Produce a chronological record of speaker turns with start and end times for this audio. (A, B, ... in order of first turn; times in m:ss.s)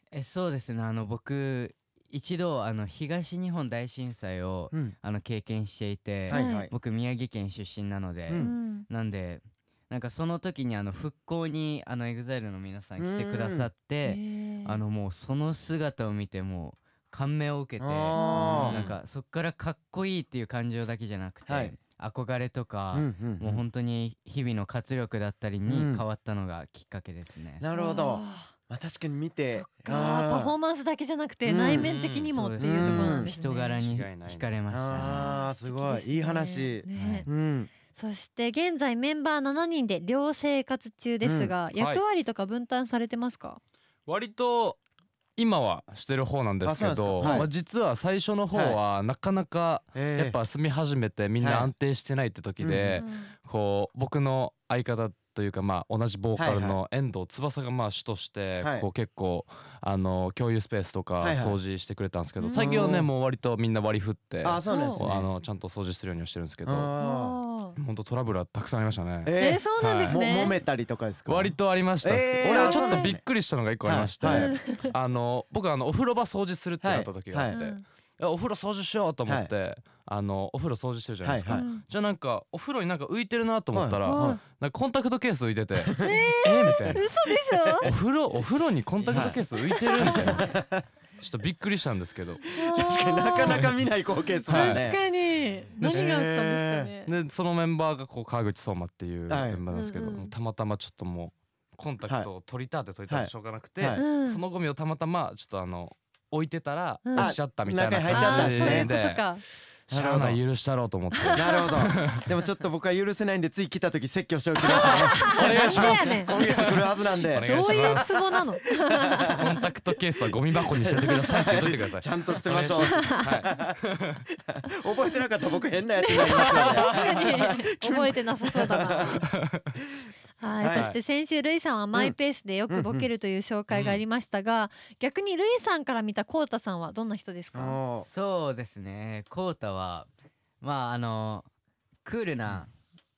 0:00.1-0:27.6 A
0:06.2-0:06.7 B
0:06.3-0:06.7 C
0:08.3-0:08.5 B
0:08.4-0:08.8 C
0:13.0-0:13.7 B
0:14.0-0:14.8 C
0:17.8-0:18.8 B
0:18.1-0:18.8 C
0:18.7-0:19.0 D
0:21.4-0:21.8 B
0:22.9-0:23.6 B
0:25.6-0:26.0 B
0:27.6-0:30.5 B
0:27.7-0:28.5 C
0:29.4-0:33.9 C
0:31.4-0:31.9 B
0:31.7-0:32.3 D
0:32.3-0:35.2 A
0:32.6-0:33.3 B
0:33.8-0:34.5 D
0:34.7-0:37.7 B
0:35.0-0:37.3 C
0:37.0-0:37.3 A
0:37.9-0:43.6 C
0:41.2-0:41.5 B
0:41.7-0:42.0 D
0:44.0-0:44.8 D
0:45.4-1:06.9 D
0:46.6-0:47.5 B
0:47.2-0:47.5 C
0:48.5-0:48.8 B
0:49.9-0:50.4 B
0:51.4-0:51.7 B
0:52.6-0:53.0 B
0:53.0-0:53.3 C
0:56.4-0:56.8 B
1:01.2-1:01.6 B
1:02.4-1:02.7 C
1:02.5-1:03.1 B
1:04.4-1:05.3 B
1:04.7-1:05.1 C
1:06.6-1:07.4 B
1:07.0-1:07.8 C
1:07.8-1:10.5 D
1:09.2-1:13.2 B
1:09.4-1:10.6 C
1:11.2-1:27.0 D
1:12.4-1:13.2 C
1:13.8-1:14.6 B
1:14.2-1:14.8 C
1:16.8-1:17.6 B
1:17.5-1:17.8 C
1:21.2-1:21.6 B
1:21.5-1:21.8 C
1:23.7-1:24.4 B
1:24.0-1:24.4 C
1:26.0-1:27.9 C
1:27.3-1:27.9 B
1:27.8-1:30.5 D
1:29.0-1:29.3 A
1:29.1-1:29.4 B
1:29.5-1:30.5 C
1:30.0-1:30.8 B
1:31.2-1:32.4 D
1:32.5-1:33.6 C
1:32.7-1:35.0 B
1:33.4-1:33.8 D
1:34.4-1:37.1 C
1:34.5-1:34.9 D
1:35.8-1:36.2 D
1:35.8-1:36.9 B
1:37.0-1:49.3 D
1:39.3-1:39.6 B
1:39.7-1:40.3 C
1:43.1-1:44.0 B
1:43.9-1:44.4 C
1:47.0-1:47.3 C
1:47.2-1:48.9 B
1:48.1-1:49.4 C
1:49.9-1:52.2 D
1:49.9-1:50.4 B
1:51.1-1:51.9 C
1:51.3-1:58.4 B
1:54.6-1:56.4 C
1:54.7-1:58.4 D
1:57.4-1:59.6 C
1:59.3-2:04.2 D
2:01.0-2:03.8 B
2:02.8-2:03.3 C
2:04.7-2:09.2 B
2:06.0-2:09.3 C
2:06.4-2:07.1 D
2:09.2-2:09.7 D
2:10.4-2:17.8 C
2:10.6-2:10.9 B
2:10.7-2:11.0 D
2:12.7-2:13.1 B
2:13.7-2:14.0 D
2:17.5-2:18.1 B
2:18.0-2:20.1 A
2:20.6-2:21.5 A
2:22.0-2:22.7 A